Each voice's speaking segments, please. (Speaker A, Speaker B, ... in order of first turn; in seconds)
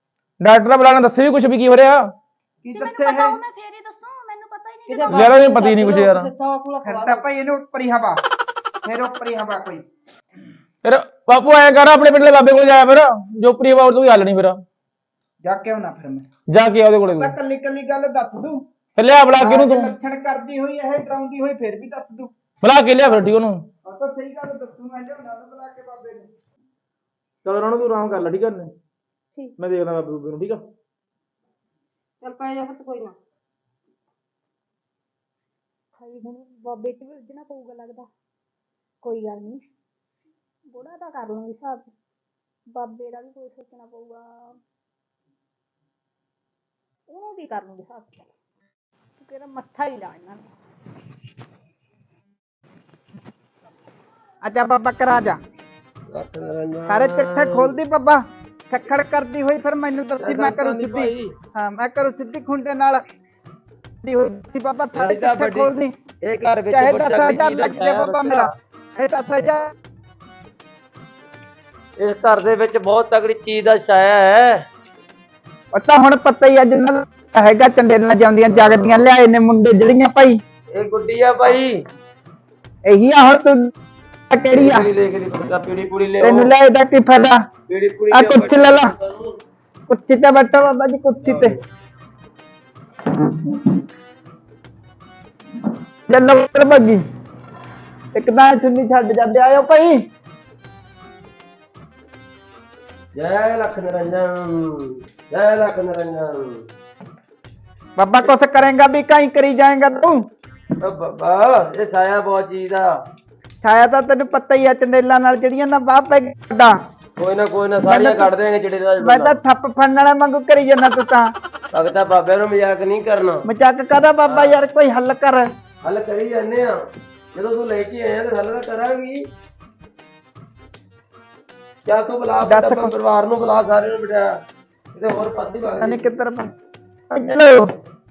Speaker A: 0.4-2.1, 5.1-6.3, 10.8-14.6, 16.5-17.3, 18.9-19.9, 22.6-23.6, 27.4-28.7, 29.6-30.6, 60.7-61.1
Speaker B: 2.6-3.4, 6.8-8.2, 8.8-9.8, 15.4-16.2, 17.2-18.6, 19.3-22.3, 23.0-23.3, 23.9-26.3, 54.4-55.4, 56.9-63.0, 64.0-65.9, 66.7-69.7, 75.7-80.4, 82.8-83.6, 84.3-84.9, 86.2-87.4, 88.1-88.9, 89.9-91.5, 93.4-93.7, 96.1-97.0, 98.1-100.0, 108.0-110.2, 113.6-116.7, 117.8-118.3, 119.0-121.3, 123.4-125.5, 132.4-132.9, 135.8-136.5, 137.1-137.7
Speaker C: 2.7-5.4, 36.0-38.1, 39.0-39.7, 40.7-41.9, 42.7-44.6, 47.1-48.2, 49.2-50.5
Speaker D: 4.9-7.2, 32.2-33.1
Speaker E: 56.1-57.8, 60.2-61.1, 64.9-68.5, 72.0-74.6, 78.5-79.1, 80.8-81.8, 84.5-86.5, 87.7-89.4, 91.2-91.6, 103.1-106.6, 110.8-112.9, 117.2-119.4, 121.7-123.5, 124.3-124.7, 125.8-126.8, 127.3-129.2, 131.9-134.4, 134.9-136.2